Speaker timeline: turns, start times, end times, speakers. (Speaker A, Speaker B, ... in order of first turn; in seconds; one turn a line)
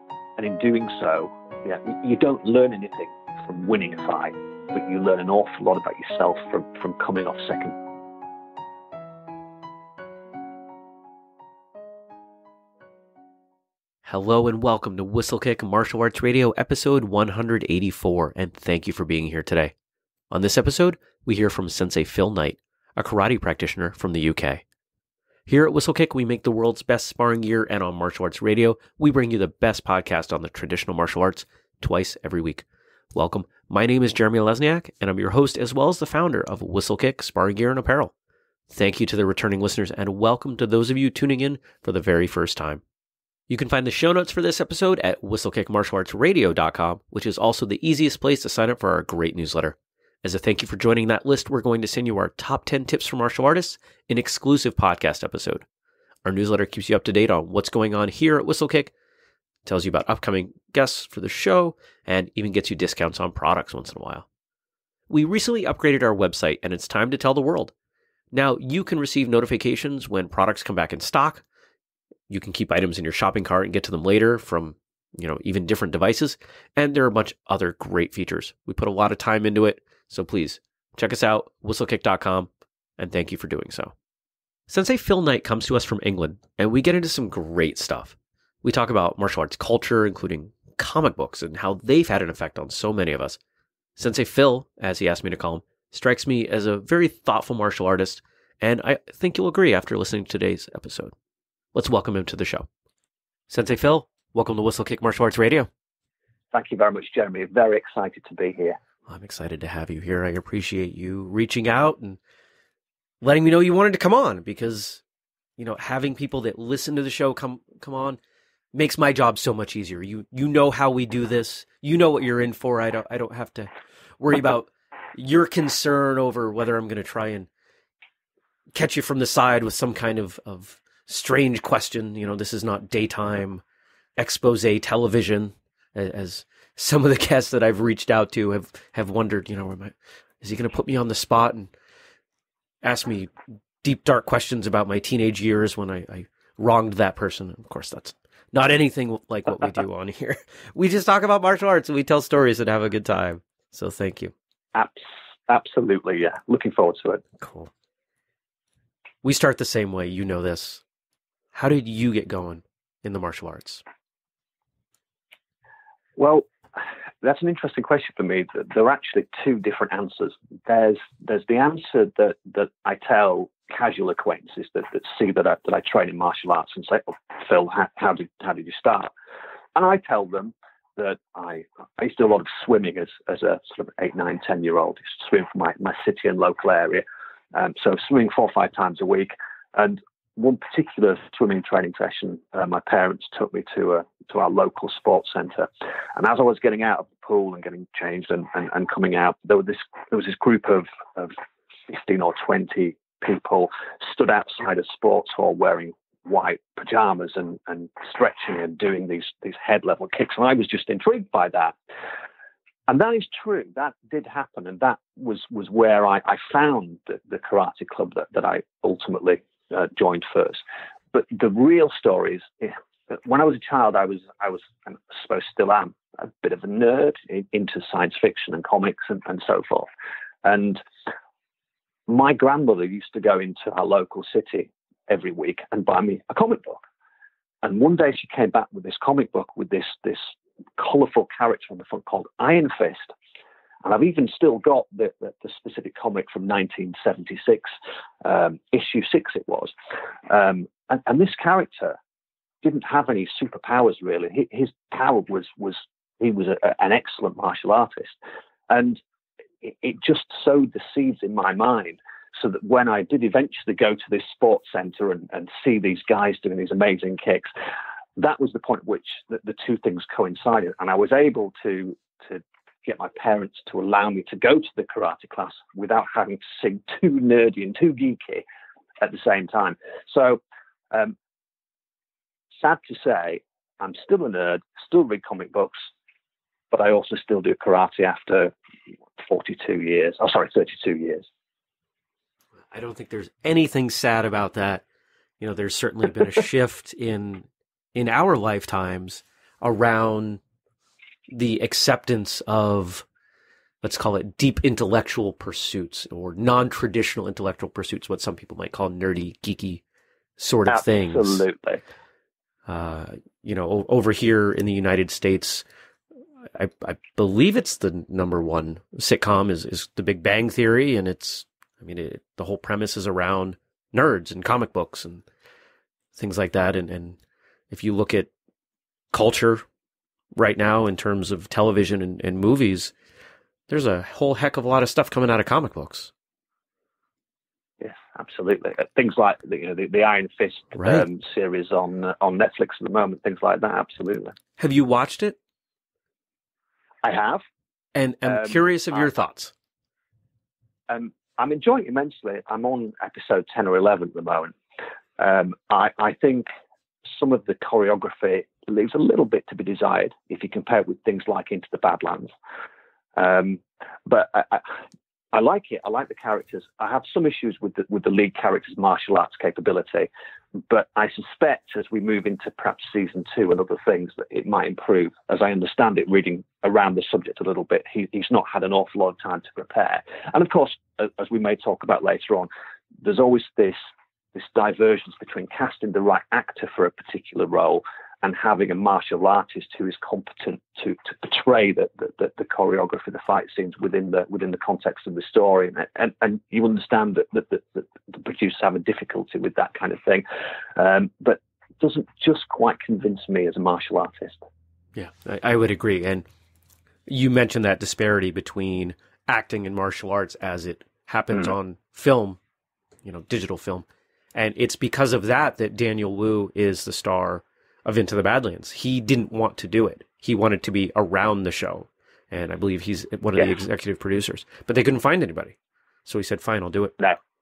Speaker A: 0.4-7.8
Speaker B: 14.1-19.7
Speaker B: 20.3-24.6
Speaker B: 25.5-38.1
Speaker B: 38.7-42.8
Speaker B: 43.5-55.6
Speaker B: 56.2-58.9
Speaker B: 59.6-64.2
Speaker B: 65.1-67.7
Speaker B: 68.3-71.4
Speaker B: 72.3-83.9
Speaker B: 84.7-93.4
Speaker B: 94.0-101.1
Speaker B: 101.7-102.7
Speaker B: 103.5-105.7
Speaker A: 106.5-108.8
Speaker B: 109.1-112.2
Speaker B: 113.2-115.0
Speaker B: 115.6-118.2
Speaker B: 118.7-127.5
Speaker B: 128.7-133.6
Speaker B: 134.2-141.7
Speaker B: 142.8-154.3
Speaker A: 154.7-157.2
Speaker B: 157.4-157.7
Speaker B: 159.2-160.8
Speaker B: 161.5-163.8
Speaker A: 166.2-179.1
Speaker A: 179.7-201.3
Speaker A: 201.9-211.7
Speaker A: 212.9-229.9
Speaker A: 230.4-230.8
Speaker A: 232.1-236.8
Speaker A: 237.6-243.1
Speaker A: 243.8-247.7
Speaker A: 248.2-249.7
Speaker A: 250.3-252.0
Speaker A: 252.6-258.1
Speaker A: 258.7-259.0
Speaker A: 259.6-267.5
Speaker A: 268.2-278.4
Speaker A: 279.0-281.1
Speaker A: 282.6-285.9
Speaker A: 286.7-288.5
Speaker A: 289.2-291.2
Speaker B: 292.7-294.8
Speaker B: 295.4-300.4
Speaker B: 301.3-303.0
Speaker B: 303.8-309.8
Speaker B: 310.4-311.4
Speaker A: 310.7-311.8
Speaker B: 312.6-315.6
Speaker B: 316.5-325.2
Speaker B: 326.1-327.2
Speaker B: 327.7-328.3
Speaker B: 329.1-329.6
Speaker B: 330.4-332.9
Speaker B: 333.7-336.1
Speaker A: 337.8-344.3
Speaker B: 340.8-341.0
Speaker B: 344.6-345.4
Speaker A: 347.0-347.4
Speaker B: 347.9-349.5
Speaker A: 348.2-348.6
Speaker A: 350.9-354.6
Speaker A: 355.2-356.5
Speaker A: 357.1-362.3
Speaker A: 363.1-364.8
Speaker A: 365.3-370.1
Speaker A: 370.7-382.5
Speaker A: 383.0-383.8
Speaker A: 384.3-400.2
Speaker A: 400.8-404.4
Speaker B: 404.9-406.2
Speaker B: 407.1-412.4
Speaker B: 413.0-425.5
Speaker B: 426.1-427.0